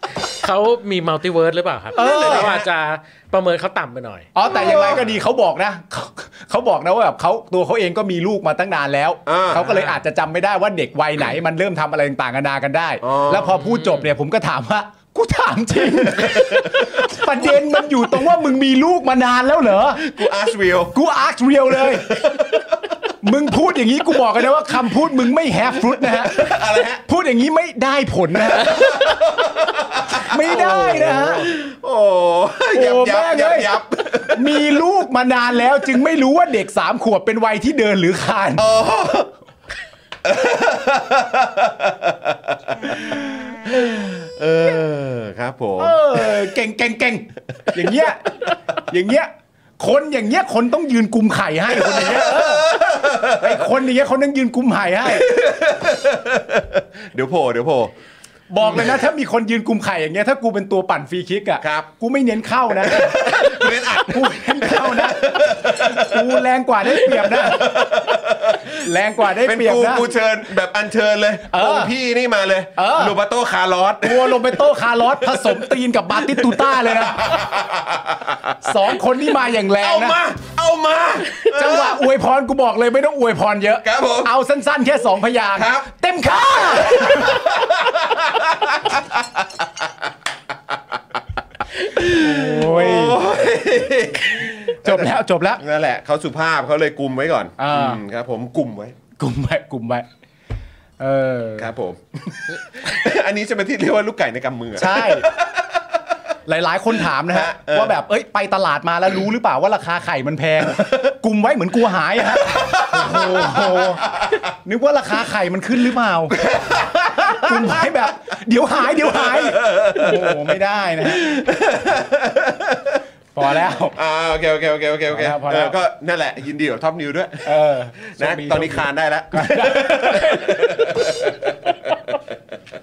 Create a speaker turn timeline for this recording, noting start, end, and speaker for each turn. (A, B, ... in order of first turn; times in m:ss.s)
0:00.3-0:04.3 A
0:01.9-0:02.6 B
0:01.9-0:02.7 C
0:04.3-0:20.0 B
0:04.5-0:05.1 C
0:09.3-0:09.6 C
0:09.5-0:10.0 A
0:13.0-0:13.6 C
0:13.6-0:14.1 A
0:16.1-0:16.8 C
0:20.0-0:21.0 C
0:20.9-0:22.1 B
0:21.8-0:22.6 C
0:23.2-0:26.4 B
0:25.9-0:27.0 C
0:27.1-0:29.0 B
0:28.4-0:30.6 C
0:30.1-0:31.5 B
0:30.4-0:31.4 A
0:31.4-0:34.8 C
0:32.7-0:38.7 B
0:38.6-0:39.3 C
0:40.2-0:46.3 C
0:45.8-0:55.3 B
0:51.7-0:53.5 C
0:55.1-0:57.9 C
0:58.5-1:08.0 B
0:58.6-0:59.0 C
1:01.6-1:01.9 C
1:02.8-1:08.8 C
1:08.8-1:10.1 B
1:09.4-1:19.0 C
1:11.5-1:11.9 B
1:12.8-1:13.2 B
1:14.0-1:17.4 B
1:18.6-1:20.2 B
1:19.8-1:22.0 C
1:21.4-1:27.6 B
1:23.8-1:24.3 C
1:25.5-1:25.9 C
1:26.7-1:29.9 C
1:31.8-1:38.9 C
1:32.0-1:33.4 B
1:34.8-1:35.6 B
1:37.6-1:38.0 B
1:39.2-1:40.1 B
1:41.0-1:41.7 B
1:41.6-1:42.0 C
1:42.5-1:46.0 C
1:44.8-1:45.3 B
1:46.5-1:56.4 B
1:47.2-1:48.0 C
1:50.7-1:51.1 C
1:52.5-1:54.4 C
1:56.4-1:57.8 C
1:57.0-2:01.3 B
1:59.1-2:00.5 C
2:01.0-2:03.0 C
2:03.3-2:04.0 B
2:03.9-2:12.2 C
2:05.1-2:05.8 B
2:07.4-2:11.1 B